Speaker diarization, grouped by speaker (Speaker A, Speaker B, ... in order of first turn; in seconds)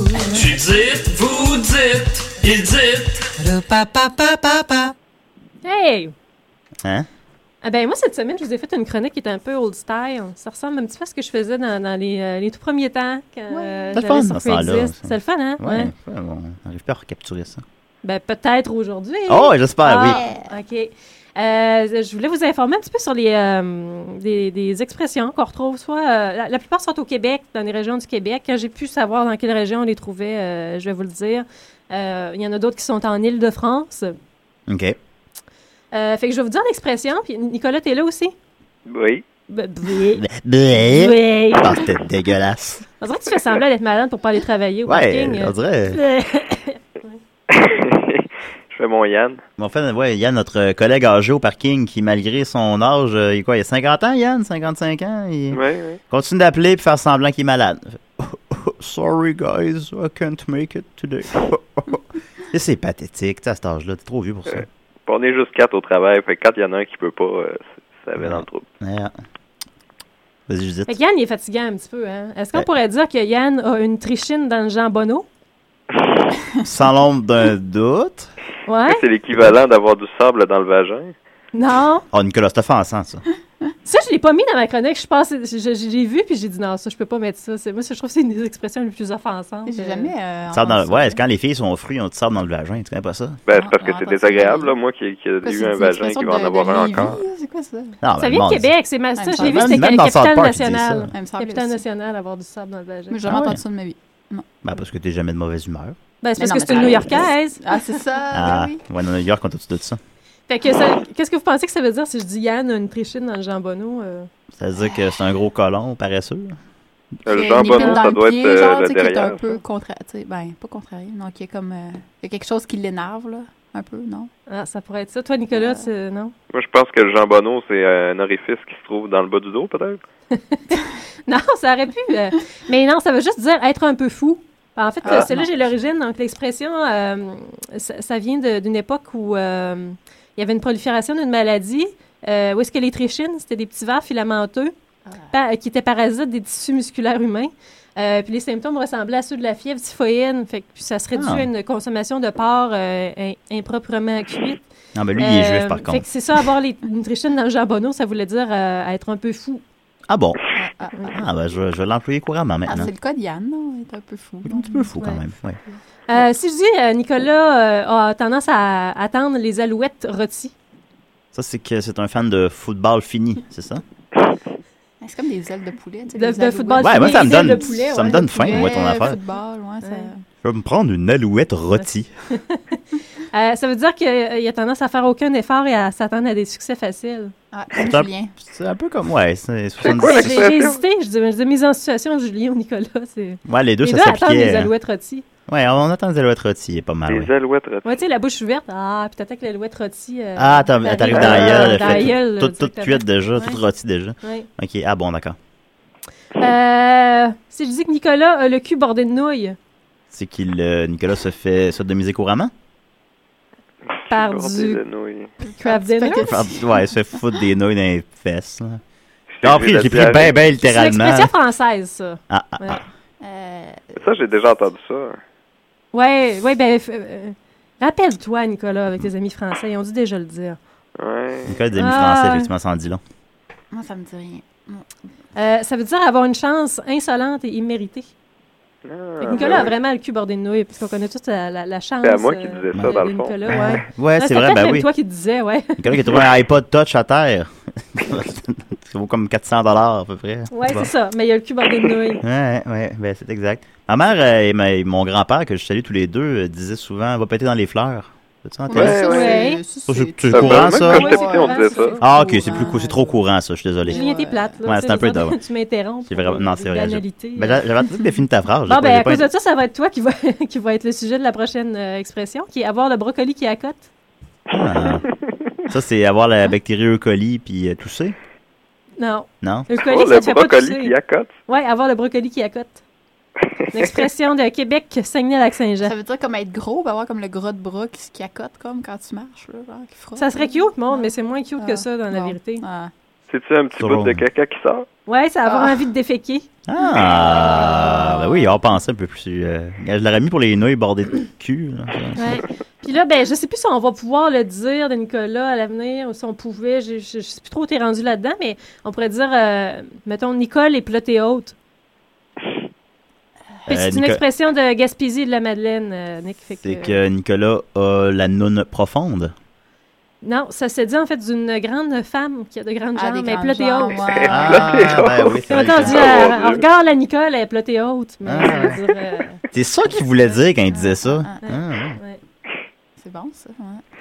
Speaker A: 0.3-3.2
Speaker B: 5.6-6.1, 7.6-15.9, 18.0-34.1, 35.9-38.3, 39.5-41.9, 43.0-47.2, 70.9-75.3, 78.7-79.0, 81.5-82.0, 83.8-90.1, 98.2-103.2, 106.2-108.0, 110.5-114.3, 117.5-118.1, 124.5-126.3, 130.3-144.7, 145.3-154.6, 155.2-159.6, 166.1-170.5, 176.1-179.2, 179.8-180.1, 181.8-182.8, 183.3-187.3, 189.8-195.2, 197.8-203.6, 204.2-204.5, 206.4-209.6, 214.1-214.8, 215.6-216.4, 220.6-222.8, 225.9-230.6, 231.8-232.5, 235.3-238.1, 239.2-245.9, 250.5-252.2, 258.9-259.6, 260.8-262.8, 263.9-267.6, 268.7-273.9, 279.0-280.9, 281.5-282.8, 283.7-285.9, 290.1-292.6, 295.1-296.5, 302.2-311.5, 313.7-317.0, 320.2-324.2, 325.5-329.4, 331.4-332.2
Speaker C: 13.5-14.0, 20.0-20.5, 89.7-91.2, 93.5-94.7, 95.4-98.0, 99.2-99.8, 101.1-101.8, 103.1-104.5, 106.4-108.8, 117.3-124.3, 125.5-125.8, 135.0-135.5, 160.5-161.2, 162.7-164.9, 175.0-180.2, 187.5-188.3, 215.4-216.6, 223.2-223.9, 233.7-234.9, 258.6-263.2, 263.8-264.6, 285.8-292.9, 295.5-295.8, 296.8-298.5, 322.9-324.9, 328.4-328.7, 330.7-331.4, 333.0-333.8
Speaker D: 13.9-17.6, 19.3-20.2, 34.7-35.0, 40.1-42.8, 44.9-46.0, 49.6-64.7, 68.2-69.2, 70.5-71.0, 76.6-78.3, 82.1-83.2, 90.5-93.4, 98.0-98.7, 99.4-101.1, 103.3-103.6, 104.6-106.0, 108.3-110.0, 114.5-116.6, 151.1-151.5, 154.9-156.0, 160.1-160.4, 161.1-162.9, 164.4-165.6, 171.3-173.8, 176.8-179.2, 180.4-182.1, 187.7-190.5, 193.5-194.7, 195.5-197.3, 200.4-205.4, 210.1-212.5, 216.2-218.8, 219.4-221.3, 222.3-222.8, 231.4-233.0, 243.5-244.9, 245.8-250.9, 252.2-259.0, 259.9-261.1, 262.0-264.1, 264.6-265.4, 266.1-269.3, 274.5-275.0, 275.7-278.1, 279.4-279.7, 293.8-294.2, 296.7-302.4, 313.7-314.2, 316.6-319.3, 324.2-326.3, 328.2-328.8, 329.5-332.0
Speaker E: 38.9-39.2, 47.5-49.4, 55.5-56.0, 64.5-68.6, 78.9-81.1, 93.5-97.2, 117.2-119.6, 126.5-130.0, 189.8-190.8, 197.1-198.0, 201.1-202.1, 213.9-215.3, 219.3-220.4, 224.0-225.2, 231.0-231.5, 238.8-239.7, 242.0-243.4, 258.7-259.5, 260.3-261.9, 279.7-281.3, 293.3-294.9, 324.3-326.6